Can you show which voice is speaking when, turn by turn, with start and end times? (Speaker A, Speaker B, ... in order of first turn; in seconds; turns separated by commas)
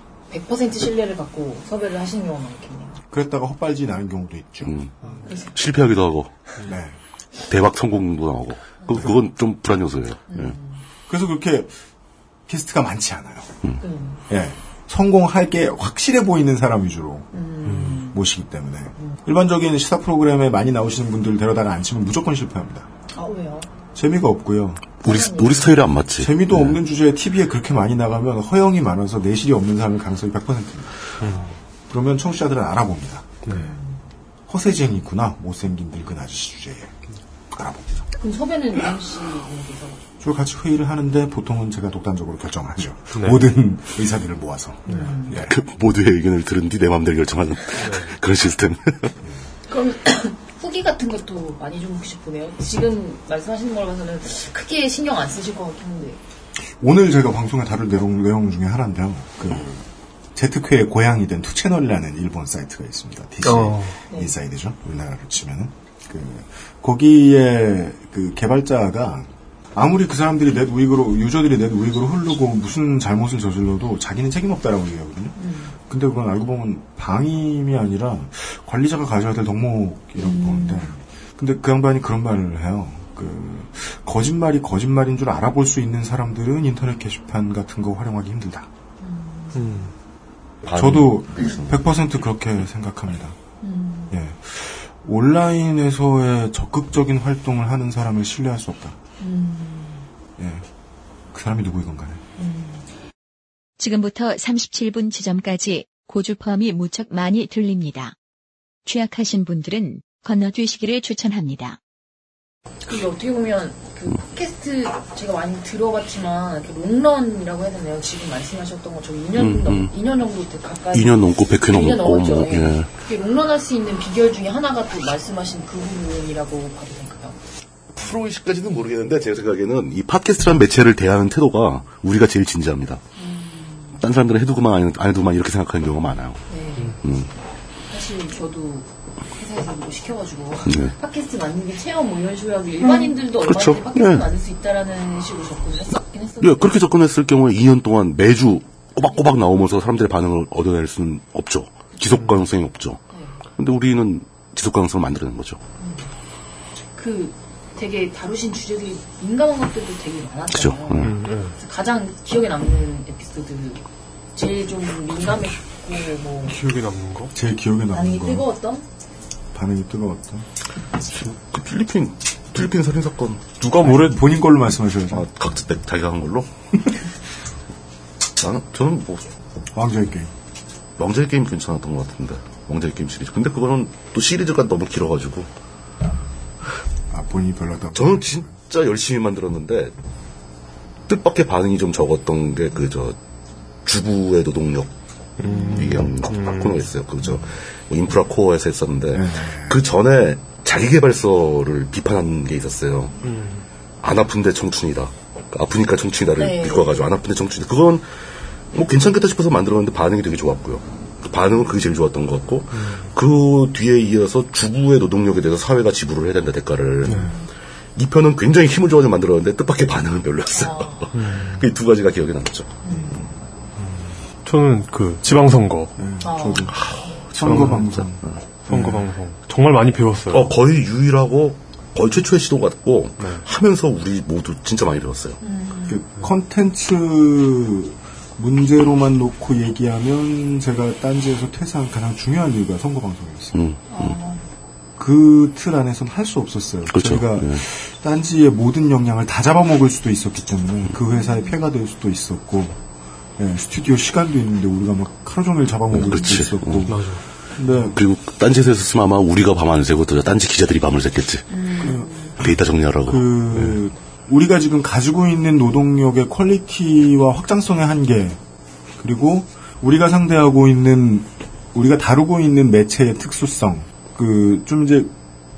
Speaker A: 0.3-3.0, Speaker B: 3.1-4.7, Speaker C: 4.6-4.9, Speaker A: 5.0-5.5, Speaker C: 5.5-6.3, Speaker B: 6.6-7.0, Speaker C: 7.5-10.5, Speaker A: 10.3-10.8, Speaker B: 11.1-11.7, Speaker B: 12.5-13.5, Speaker A: 13.8-14.2, Speaker B: 14.3-17.2, Speaker A: 17.3-18.2, Speaker D: 17.7-18.0, Speaker B: 18.1-22.9, Speaker A: 23.1-23.7, Speaker B: 23.9-24.9, Speaker A: 25.0-25.8, Speaker C: 25.0-26.8, Speaker B: 26.2-31.0, Speaker D: 31.2-31.5, Speaker B: 31.9-33.4, Speaker D: 33.5-33.7, Speaker A: 33.5-34.0, Speaker B: 34.5-37.0, Speaker B: 37.5-38.0, Speaker A: 38.2-40.0, Speaker B: 40.2-45.5, Speaker D: 43.1-43.4, Speaker A: 44.9-45.4, Speaker D: 44.9-45.1, Speaker C: 45.3-49.1, Speaker D: 47.8-48.1, Speaker A: 49.7-56.2, Speaker B: 56.8-88.7, Speaker D: 63.4-64.0, Speaker A: 75.3-75.8, Speaker A: 80.2-80.9, Speaker A: 89.0-89.9, Speaker D: 89.5-89.9, Speaker C: 90.6-91.7, Speaker B: 90.7-93.3, Speaker A: 93.6-94.1, Speaker B: 94.1-99.0, Speaker A: 99.2-100.1, Speaker B: 100.4-100.7, Speaker B: 101.3-102.2, Speaker A: 102.4-102.9, Speaker E: 103.8-108.1, Speaker E: 108.8-111.8, Speaker A: 112.8-127.4, Speaker C: 119.3-119.9, Speaker C: 120.9-122.9, Speaker C: 127.9-133.0, Speaker A: 133.2-134.0, Speaker C: 134.0-136.4, Speaker A: 136.5-137.0, Speaker C: 137.0-137.3, Speaker A: 137.9-146.8, Speaker C: 140.7-140.9, Speaker C: 143.4-144.3, Speaker C: 146.4-153.0, Speaker D: 152.1-152.4, Speaker A: 153.1-153.4, Speaker C: 153.6-155.6, Speaker A: 155.8-156.1, Speaker A: 156.9-163.8, Speaker C: 160.5-161.2, Speaker D: 161.0-161.6, Speaker A: 164.3-166.6, Speaker D: 166.4-167.3, Speaker B: 167.3-168.5, Speaker A: 167.9-168.8, Speaker B: 169.5-170.5, Speaker C: 171.1-173.7, Speaker D: 173.6-174.1, Speaker B: 173.8-175.2, Speaker C: 175.1-176.5, Speaker C: 178.4-179.3, Speaker B: 179.7-180.3, Speaker C: 181.0-185.5, Speaker B: 187.1-188.5, Speaker C: 187.9-189.9, Speaker C: 191.1-193.2, Speaker C: 193.8-194.9, Speaker D: 195.4-196.8, Speaker A: 195.4-195.9, Speaker C: 195.7-203.1, Speaker B: 199.1-199.8, Speaker D: 203.2-203.6, Speaker C: 204.0-208.1, Speaker A: 206.4-206.9, Speaker C: 208.7-217.3, Speaker D: 212.7-213.1, Speaker D: 217.0-217.3, Speaker C: 217.9-222.8, Speaker A: 220.5-221.1, Speaker D: 221.1-221.7, Speaker A: 222.8-223.2, Speaker D: 223.8-225.9, Speaker B: 226.0-226.8, Speaker A: 226.2-227.2, Speaker C: 226.7-228.4, Speaker B: 227.3-229.1, Speaker D: 227.4-228.0, Speaker D: 228.7-230.6, Speaker C: 230.3-235.4, Speaker D: 233.2-233.4, Speaker A: 235.4-236.0, Speaker B: 235.9-243.6, Speaker C: 243.5-244.1, Speaker A: 243.9-244.4, Speaker B: 245.0-252.8, Speaker C: 246.9-247.6, Speaker A: 251.1-251.6, Speaker B: 253.4-257.0, Speaker C: 255.9-256.9, Speaker D: 256.8-257.2, Speaker B: 257.6-258.0, Speaker C: 257.9-261.5, Speaker A: 261.5-262.3, Speaker B: 261.8-262.5, Speaker C: 262.4-263.8, Speaker B: 263.1-268.4, Speaker B: 269.0-275.1